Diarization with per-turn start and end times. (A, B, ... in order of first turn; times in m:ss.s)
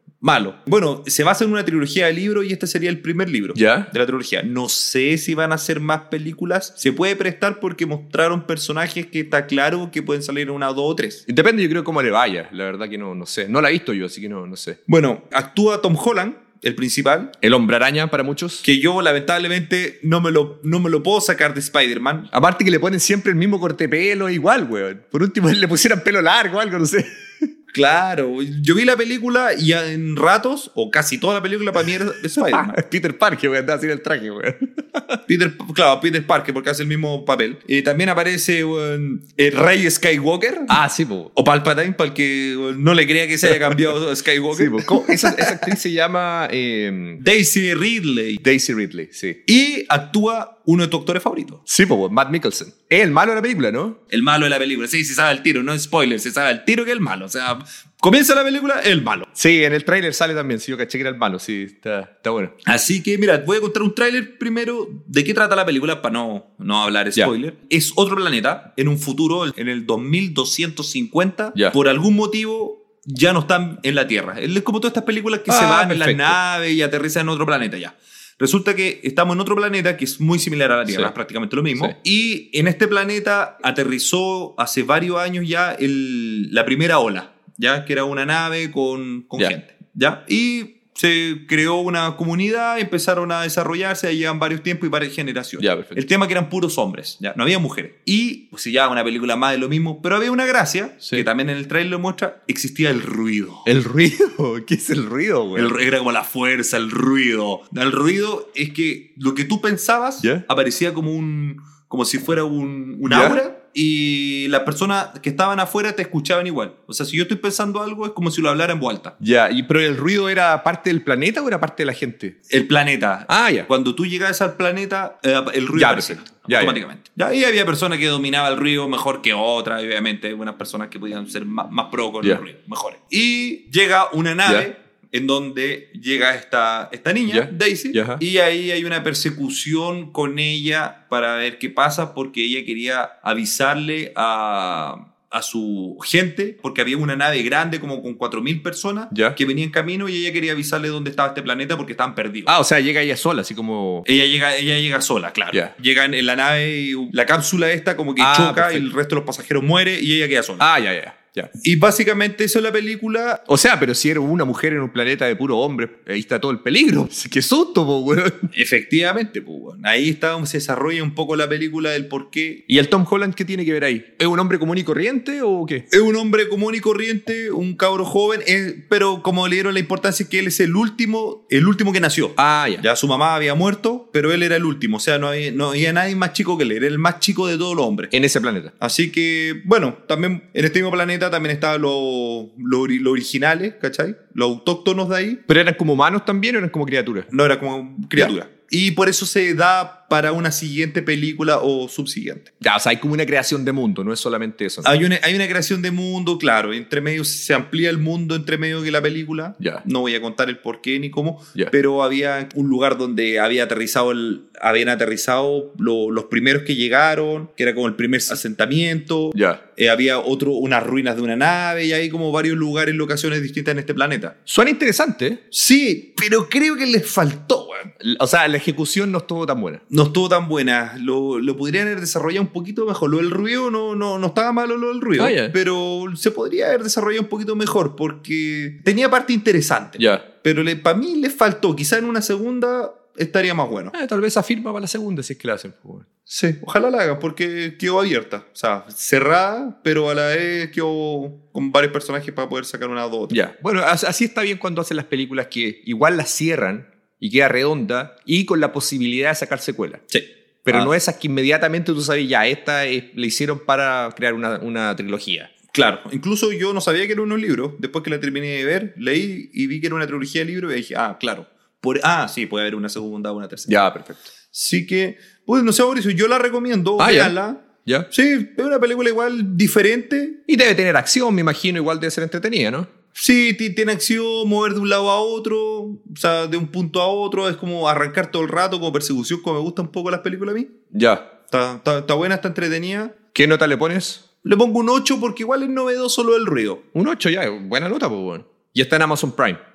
0:00.2-0:11.2 A
0:03.5-0:03.9 B
0:11.3-0:14.8 B
0:14.9-0:17.3 A
0:17.4-0:18.6 B
0:18.6-0:22.3 A
0:22.3-0:27.5 B
0:27.7-0:32.8 A
0:32.4-0:35.2 B
0:35.3-0:40.8 A
0:40.7-0:41.3 B
0:41.3-0:45.7 A
0:44.5-0:47.2 B
0:47.2-0:48.4 A
0:48.4-0:49.4 B
0:49.5-0:51.6 A
0:51.7-0:54.0 B
0:54.1-0:59.3 A
0:59.3-1:02.5 B
1:02.6-1:43.7 A
1:15.5-1:16.4 B
1:20.9-1:21.1 B
1:35.6-1:36.0 B
1:41.0-1:41.3 B
1:43.6-1:45.7 B
1:45.6-1:59.1 A
1:53.1-1:53.4 B
1:59.2-2:02.3 B
2:02.5-2:32.5 A
2:03.3-2:03.7 B
2:05.7-2:06.8 B
2:17.3-2:18.2 B
2:29.1-2:29.4 B
2:32.5-2:34.1 B
2:34.1-2:40.6 A
2:38.2-2:38.8 B
2:40.6-2:41.5 B
2:41.6-2:43.4 A
2:43.5-2:48.5 B
2:48.5-2:52.6 A
2:52.7-2:55.8 B
2:55.9-3:08.1 A
3:02.4-3:02.8 B
3:08.1-3:08.7 B
3:08.8-3:15.4 A
3:15.5-3:17.3 B
3:17.3-3:22.5 A
3:22.6-3:24.9 B
3:24.8-3:44.3 A
3:29.6-3:29.8 B
3:39.3-3:39.6 B
3:44.5-3:45.4 B
3:45.5-3:47.9 A
3:48.0-3:49.8 B
3:49.9-4:03.9 A
3:55.2-3:55.5 B
4:00.0-4:00.2 B
4:03.9-4:06.1 B
4:06.3-4:13.3 A
4:13.3-4:20.0 B
4:20.1-4:20.9 A
4:20.6-4:25.5 B
4:25.7-4:33.7 A
4:33.7-4:34.3 B
4:34.5-4:40.4 A
4:37.0-4:38.1 B
4:40.5-4:42.9 B
4:43.1-4:50.7 A
4:50.9-4:51.3 B
4:51.5-4:53.1 A
4:53.3-4:54.2 B
4:54.4-4:56.8 A
4:56.9-4:59.6 B